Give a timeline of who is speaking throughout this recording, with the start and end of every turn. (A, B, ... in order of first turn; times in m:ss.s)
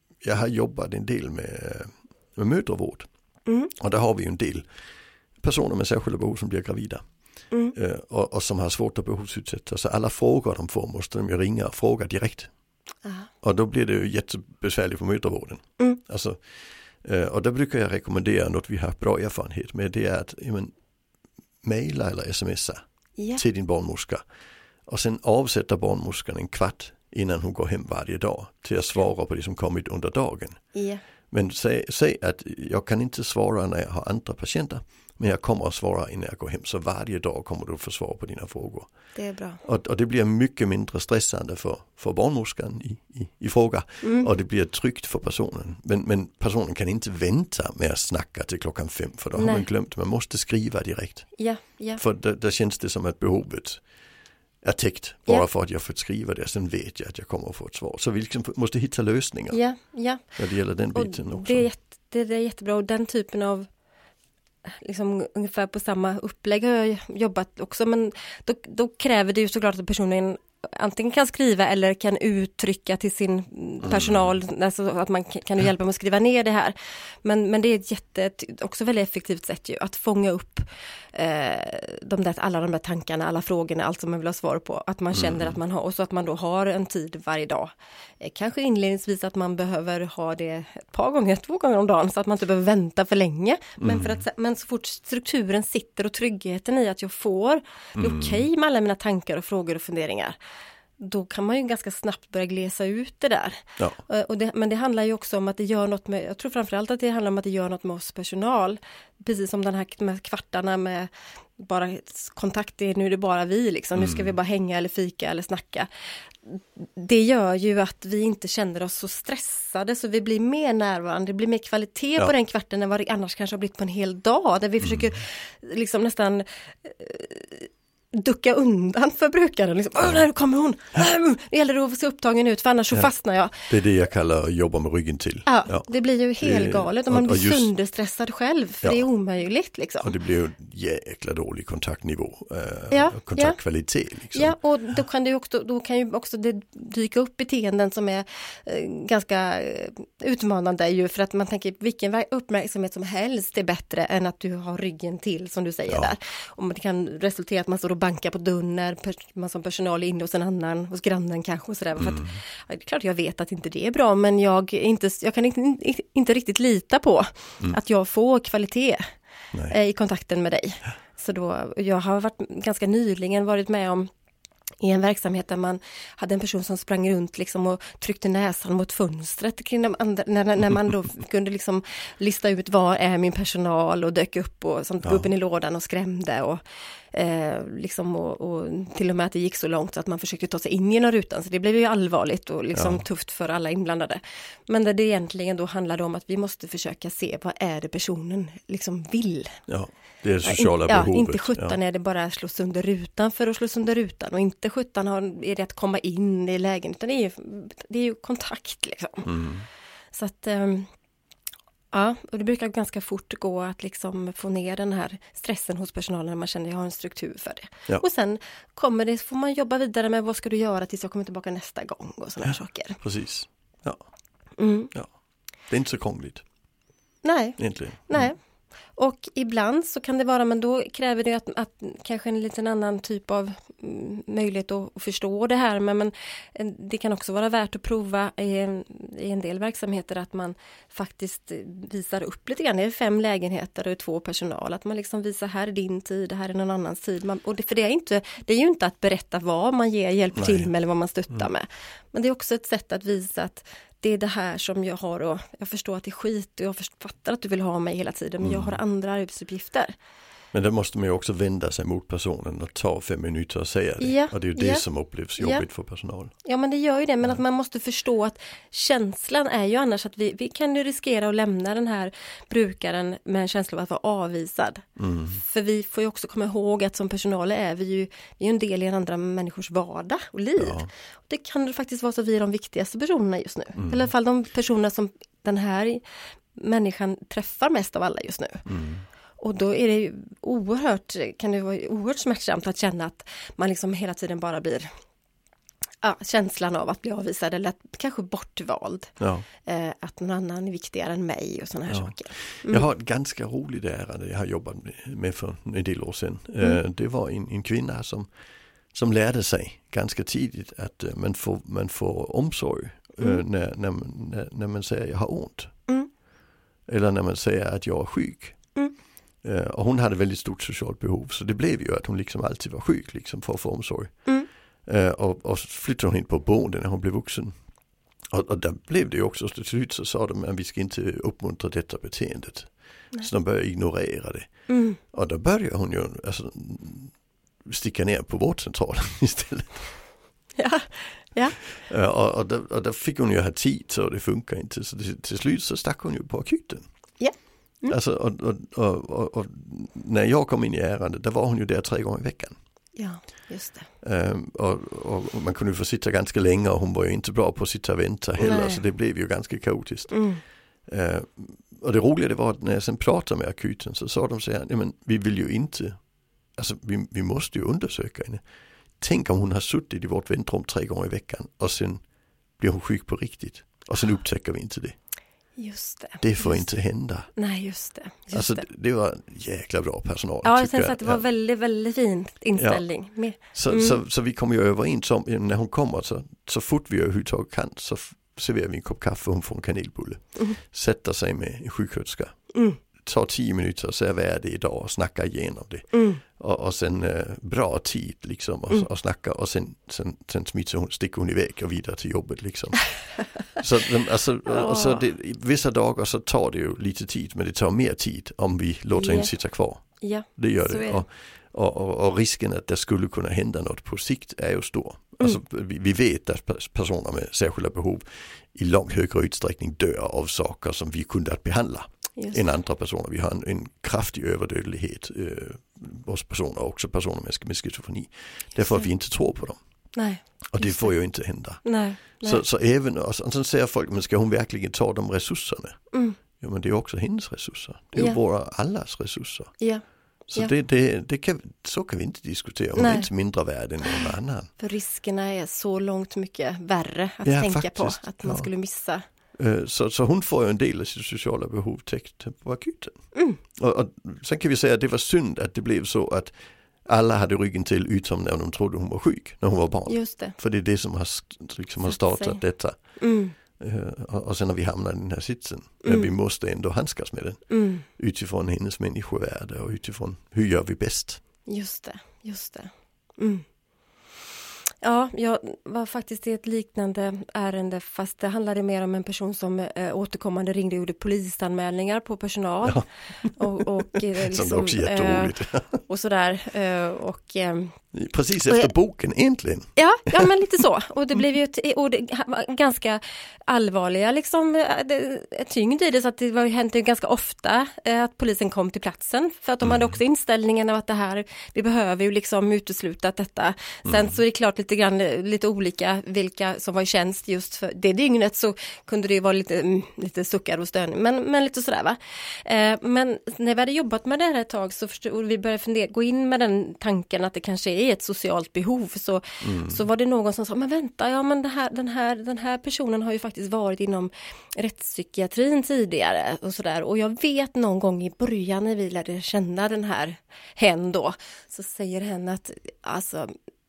0:00.2-0:03.1 A
0:03.8-0:04.6 A
0:05.4-0:07.0 A
0:07.7-0:12.5 A
0:13.0-0:13.3 B
0:13.4-0:16.4 A
0:17.0-0:20.7 A
0:21.6-0:22.8 A
0:23.4-0:24.2 A
0:24.9-0:30.6 A
0:30.8-0:31.0 B
0:31.3-0:38.9 A
0:39.2-0:39.6 B
0:39.6-0:51.3 A
0:44.0-0:44.3 B
0:49.4-0:49.7 B
0:51.4-0:52.0 B
0:52.0-0:53.8 A
0:54.6-0:59.6 A
0:59.5-1:00.4 B
1:00.4-1:01.7 A
1:00.9-1:03.7 B
1:04.8-1:40.4 B
1:13.8-1:14.3 A
1:25.1-1:25.6 A
1:33.8-1:34.2 A
1:38.0-1:38.4 A
1:41.0-1:55.9 B
1:54.0-1:54.3 A
1:56.4-2:13.7 B
2:04.8-2:05.1 A
2:13.7-2:15.9 A
2:15.5-2:20.1 B
2:16.4-2:17.7 A
2:20.0-2:24.6 A
2:22.9-2:23.6 B
2:24.3-2:49.0 B
2:42.0-2:42.4 A
2:49.7-2:54.1 B
2:54.8-3:06.6 B
3:07.1-3:19.6 B
3:12.7-3:13.0 A
3:19.7-3:21.8 A
3:20.4-3:29.3 B
3:29.2-3:29.7 A
3:30.1-3:30.9 B
3:31.9-3:43.0 B
3:43.0-3:44.0 A
3:44.6-3:44.9 B
3:45.7-3:46.4 A
3:47.2-3:48.4 B
3:47.6-3:48.3 A
3:49.0-4:19.9 B
4:10.4-4:10.7 A
4:18.4-4:18.8 A
4:20.5-4:26.3 A
4:24.0-4:24.9 B
4:25.4-4:25.7 B
4:26.4-4:46.0 B
4:35.0-4:35.4 A
4:40.6-4:40.9 A
4:43.8-4:44.1 A
4:46.6-4:48.6 B
4:48.7-4:49.0 A
4:49.4-4:54.9 B
4:56.0-4:59.1 B
4:59.2-4:59.5 A
4:59.6-5:02.9 B
5:01.9-5:08.3 A
5:08.9-5:15.7 A
5:16.9-5:18.6 A
5:19.4-5:24.1 A
5:24.9-5:27.5 A
5:28.3-5:34.5 A
5:34.7-5:35.0 B
5:35.1-5:37.1 A
5:37.7-5:39.8 A
5:40.6-5:41.6 B
5:41.8-5:46.8 A
5:47.2-5:48.0 B
5:47.9-5:52.6 A
5:53.0-5:53.9 B
5:54.0-6:00.2 A
5:58.4-5:58.8 B
6:00.1-6:00.4 B
6:00.9-6:06.0 A
6:06.6-6:08.4 A
6:09.0-6:12.0 A
6:12.6-6:15.0 A
6:15.6-6:16.7 B
6:16.2-6:17.3 A
6:17.4-6:18.7 B
6:18.3-6:21.2 A
6:20.4-6:24.0 B
6:22.6-6:22.8 A
6:23.5-6:32.3 A
6:32.5-6:32.8 B
6:33.0-6:42.9 A
6:35.9-6:36.2 B
6:43.6-6:49.8 A
6:44.5-6:45.0 B
6:48.9-6:49.3 B
6:50.0-6:51.0 B
6:50.4-7:09.6 A
7:02.2-7:02.5 B
7:10.0-7:11.0 B
7:10.5-7:11.6 A
7:11.6-7:12.4 B
7:12.2-7:15.8 A
7:15.9-7:16.2 B
7:16.4-7:19.5 A
7:20.3-7:24.5 A
7:22.8-7:23.1 B
7:23.8-7:29.0 B
7:27.2-7:28.5 A
7:29.4-7:33.0 A
7:33.1-7:33.4 B
7:33.6-7:36.3 A
7:36.9-7:42.8 A
7:39.9-7:40.4 B
7:41.9-7:42.4 B
7:43.0-7:43.4 B
7:43.6-7:47.4 A
7:45.8-7:46.1 B
7:47.5-7:47.9 B
7:48.0-7:51.2 A
7:51.5-7:53.4 B
7:54.8-8:07.8 B
8:02.6-8:03.6 A
8:04.2-8:05.8 A
8:07.9-8:10.4 A
8:09.8-8:53.3 B
8:23.9-8:24.1 A
8:39.4-8:39.8 A